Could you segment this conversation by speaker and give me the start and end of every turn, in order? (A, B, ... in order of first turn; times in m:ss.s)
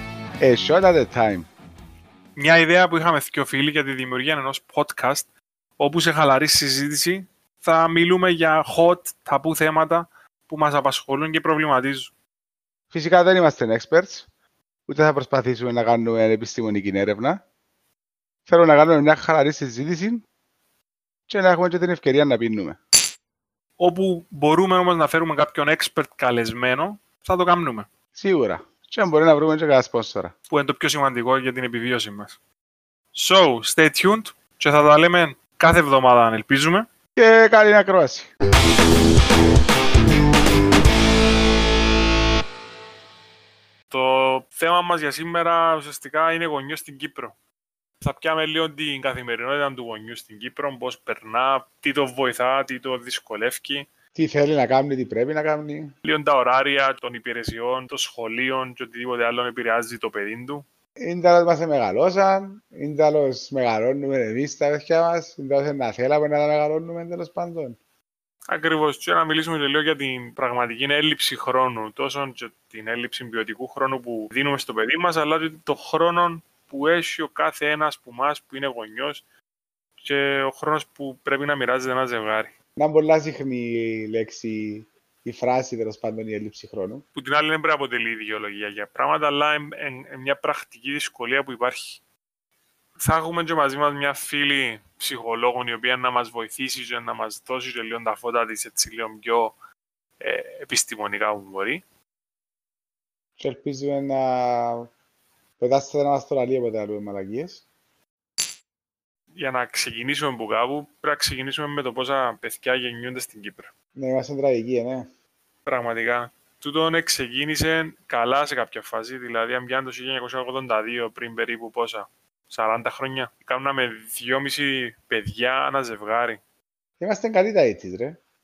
0:00.4-0:01.5 A
0:02.4-0:05.3 B
0:05.8-0:12.1 B
0:12.9-0:14.3 A
0:14.9-0:17.4 A
0:18.5-0:20.2 A
0:21.3-0:22.8 A
0:23.8-0:27.9 B
0:28.1-0:30.3 A
0:30.5-0:32.4 B
0:33.1-0:36.9 B
0:37.2-0:38.3 A
0:43.9-0:47.3 B
0:48.0-0:53.9 B
0:54.2-0:55.9 A
0:56.0-1:00.6 B
1:01.0-1:07.8 A
1:08.5-1:19.2 B
1:20.0-1:22.5 B
1:22.8-1:27.0 A
1:27.1-1:32.0 B
1:33.0-1:39.5 B
1:40.2-1:41.8 B
1:43.4-1:44.9 A
1:45.6-1:47.6 A
1:49.3-1:53.7 B
1:54.0-1:55.1 A
1:55.6-2:06.4 B
2:07.0-2:08.2 A